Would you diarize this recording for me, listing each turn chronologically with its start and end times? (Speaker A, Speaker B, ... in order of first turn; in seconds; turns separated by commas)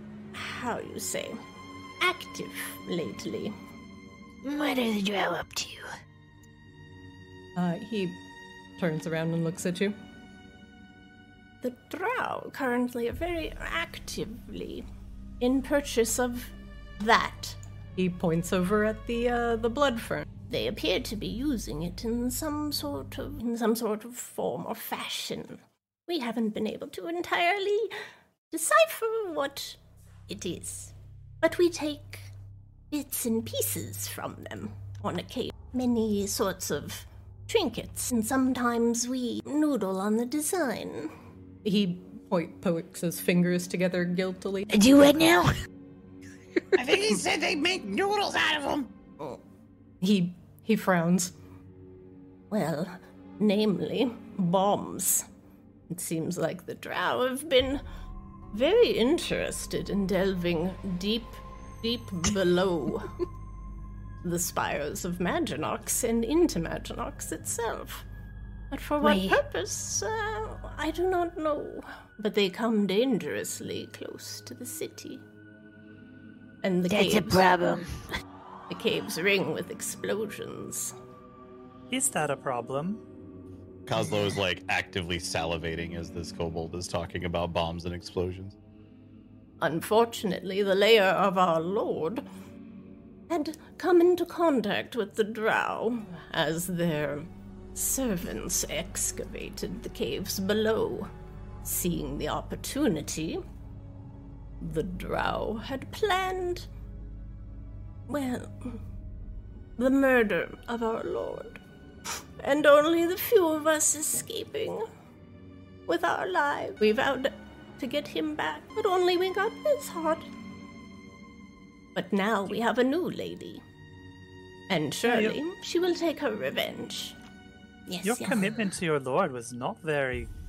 Speaker A: 0.3-1.4, Speaker A: 2.0-3.5, Speaker B: 4.4-5.9, Speaker C: 7.5-8.2, Speaker C: 8.8-9.9, Speaker A: 11.6-14.8, Speaker A: 15.4-17.6, Speaker C: 18.0-20.3, Speaker A: 20.5-27.9, Speaker A: 28.5-32.3, Speaker A: 32.9-41.1, Speaker C: 41.6-44.8, Speaker B: 44.7-45.5, Speaker D: 46.7-48.9, Speaker C: 50.0-51.3, Speaker A: 52.5-55.2, Speaker A: 55.9-57.8, Speaker A: 58.5-63.2, Speaker A: 64.2-68.0, Speaker A: 68.7-75.2, Speaker B: 69.0-69.4, Speaker A: 76.6-77.5, Speaker B: 76.9-78.0, Speaker A: 78.7-80.9, Speaker E: 81.9-83.0, Speaker F: 83.8-88.5, Speaker A: 89.6-92.2, Speaker A: 93.3-101.1, Speaker A: 101.6-103.4, Speaker A: 104.6-106.7, Speaker A: 108.1-108.8, Speaker A: 109.8-111.6, Speaker A: 112.4-114.8, Speaker A: 115.9-120.3, Speaker A: 121.9-123.6, Speaker A: 124.7-127.2, Speaker E: 125.0-125.4, Speaker A: 127.9-128.6, Speaker E: 128.0-130.3